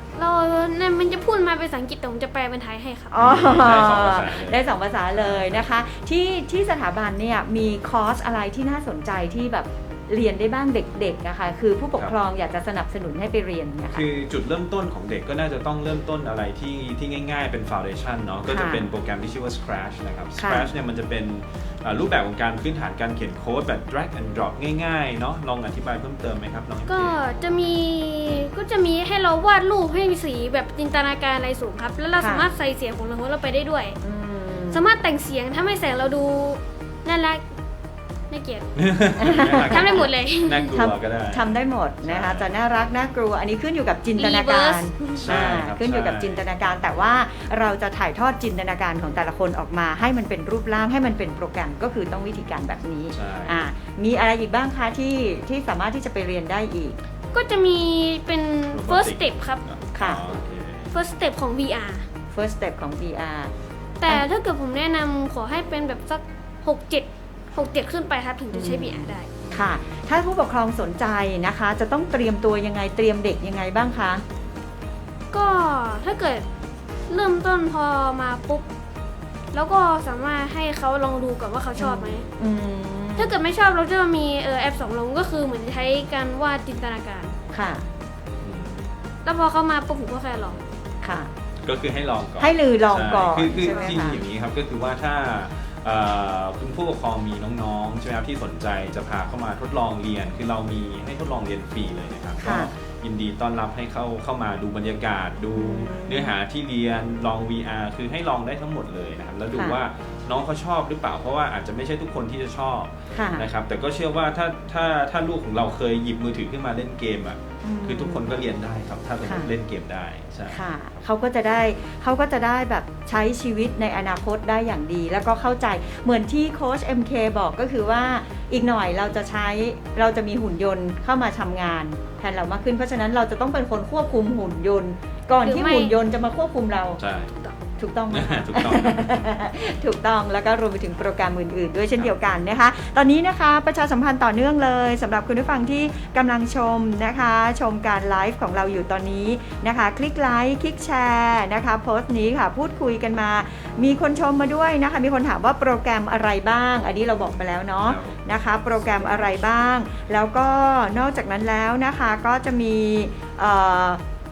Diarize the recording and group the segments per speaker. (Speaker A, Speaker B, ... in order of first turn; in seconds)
Speaker A: 0.1-3.2, 26.9-34.0, 34.7-37.5, 38.3-40.8, 44.2-45.3, 57.3-59.7, 60.9-62.1, 64.0-69.3, 75.3-76.5, 77.1-78.7, 79.5-82.3, 83.2-87.3, 89.2-90.6, 93.7-94.0, 135.4-135.9
Speaker B: 3.1-14.0, 18.5-18.9, 20.4-20.7, 32.2-32.5, 34.0-34.9, 39.2-40.1, 40.7-57.0, 60.0-60.2, 62.3-63.5, 68.5-74.2, 81.8-83.4, 87.5-87.9, 91.0-91.3, 92.4-94.2, 102.4-102.7, 105.5-106.3, 113.1-113.5, 117.6-118.3, 119.2-119.5, 120.5-137.0, 137.8-164.0
Speaker C: 3.2-5.9, 13.9-27.2, 38.8-42.5, 45.1-46.5, 53.1-53.7, 58.7-61.0, 69.4-69.8, 88.4-89.0, 91.6-120.6, 137.0-137.4, 138.1-139.3, 157.2-159.3